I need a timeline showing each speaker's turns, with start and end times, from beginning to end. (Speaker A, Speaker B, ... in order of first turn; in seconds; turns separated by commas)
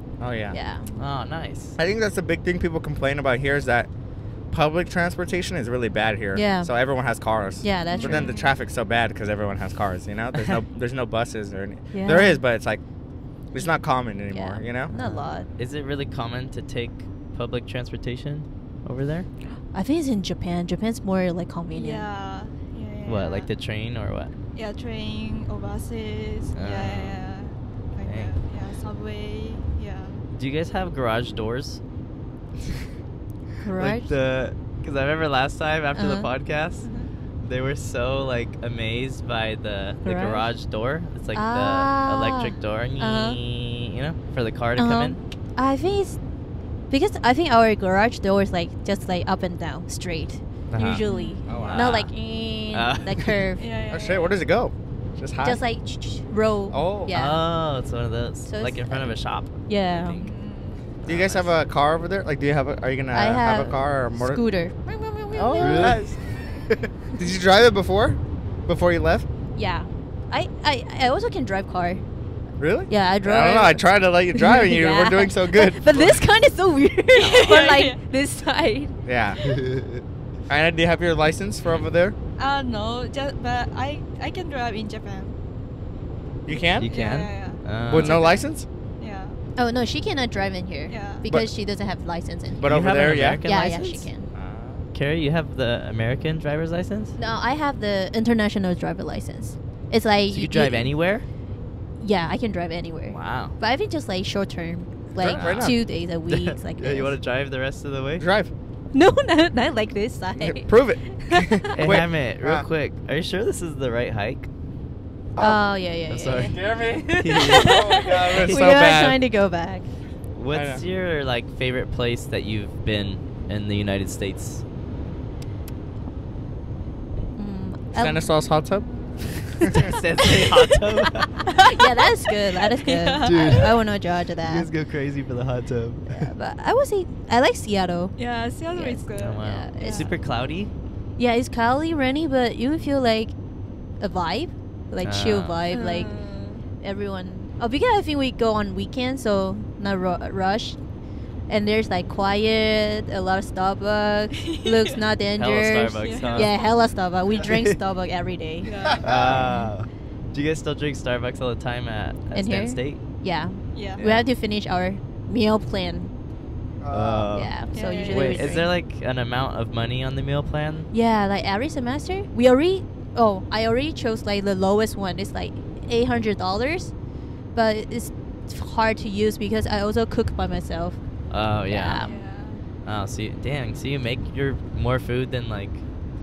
Speaker A: 0.2-0.6, Speaker B: 0.5-0.9, Speaker C: 0.9-1.8, Speaker A: 1.8-3.9, Speaker A: 4.5-12.8, Speaker B: 6.3-6.7, Speaker B: 7.6-8.3, Speaker D: 7.9-8.5, Speaker B: 11.9-12.4, Speaker A: 13.5-14.9, Speaker B: 14.3-15.5, Speaker C: 14.9-19.3, Speaker B: 19.7-22.1, Speaker D: 21.7-23.5, Speaker C: 23.1-24.3, Speaker D: 24.5-30.2, Speaker C: 26.5-27.2, Speaker C: 28.1-28.3, Speaker C: 30.4-31.8, Speaker B: 33.6-34.1, Speaker C: 33.8-45.2, Speaker B: 36.0-36.3, Speaker D: 36.8-37.1, Speaker B: 40.0-40.5, Speaker B: 41.3-43.4, Speaker B: 44.8-46.2, Speaker B: 46.9-53.6, Speaker C: 50.7-51.0, Speaker D: 50.9-51.8, Speaker A: 51.5-51.9, Speaker C: 51.6-52.1, Speaker C: 52.7-53.4, Speaker D: 53.6-54.4, Speaker A: 53.9-55.6, Speaker B: 55.4-57.5, Speaker A: 56.7-57.1, Speaker C: 57.1-60.3, Speaker B: 58.5-60.2, Speaker D: 60.2-60.9, Speaker C: 61.0-61.5, Speaker A: 61.0-64.4, Speaker B: 63.1-66.0, Speaker A: 65.3-66.1, Speaker C: 65.5-66.9, Speaker A: 67.2-69.3, Speaker B: 69.5-72.0, Speaker A: 72.6-76.2, Speaker B: 72.9-79.0, Speaker D: 77.2-78.0, Speaker A: 77.2-77.6, Speaker A: 79.1-79.4, Speaker C: 79.4-80.0, Speaker A: 80.5-82.2, Speaker D: 82.4-85.4, Speaker A: 86.5-86.9, Speaker D: 86.5-88.3, Speaker C: 86.8-88.5, Speaker A: 87.9-88.7, Speaker D: 89.0-89.4, Speaker B: 89.6-92.8, Speaker D: 90.9-91.2, Speaker A: 91.2-91.5, Speaker A: 92.6-93.4, Speaker C: 92.6-94.1, Speaker B: 93.4-94.3, Speaker A: 94.3-94.8, Speaker C: 94.9-97.2, Speaker B: 97.2-100.9, Speaker C: 100.3-101.2, Speaker B: 102.0-107.2, Speaker C: 103.1-103.6, Speaker A: 105.2-105.8, Speaker C: 105.2-108.3, Speaker A: 108.2-108.5, Speaker B: 108.9-112.0, Speaker A: 110.3-112.7, Speaker C: 111.7-114.5, Speaker A: 115.3-115.6, Speaker B: 115.4-116.6, Speaker C: 116.1-118.7, Speaker A: 116.3-119.2, Speaker B: 117.3-117.7, Speaker D: 117.4-118.2, Speaker B: 118.4-119.9, Speaker C: 120.3-124.6, Speaker A: 120.5-120.8, Speaker B: 127.4-128.3, Speaker A: 127.9-129.9, Speaker C: 129.6-131.4, Speaker B: 131.4-134.7, Speaker D: 132.2-133.7, Speaker C: 133.2-136.3, Speaker B: 136.1-138.2, Speaker D: 138.2-140.1, Speaker B: 138.7-140.1, Speaker C: 139.2-140.7, Speaker B: 141.2-143.3, Speaker B: 144.0-146.2, Speaker C: 145.0-145.6, Speaker D: 145.7-146.7, Speaker B: 146.8-150.8, Speaker B: 151.5-158.7, Speaker D: 154.5-154.9, Speaker C: 155.4-156.5, Speaker D: 156.0-156.7, Speaker C: 157.4-157.8, Speaker D: 158.6-159.2, Speaker A: 158.9-159.5, Speaker C: 159.0-163.0, Speaker B: 159.2-159.7, Speaker B: 162.3-166.1, Speaker D: 163.7-164.0, Speaker C: 164.0-164.3, Speaker A: 166.8-167.3, Speaker C: 166.9-170.9, Speaker B: 167.3-168.7, Speaker D: 167.7-168.7, Speaker B: 170.9-176.9, Speaker B: 177.5-181.0, Speaker C: 181.3-182.2, Speaker B: 181.7-182.2, Speaker D: 182.0-182.7, Speaker C: 182.8-185.9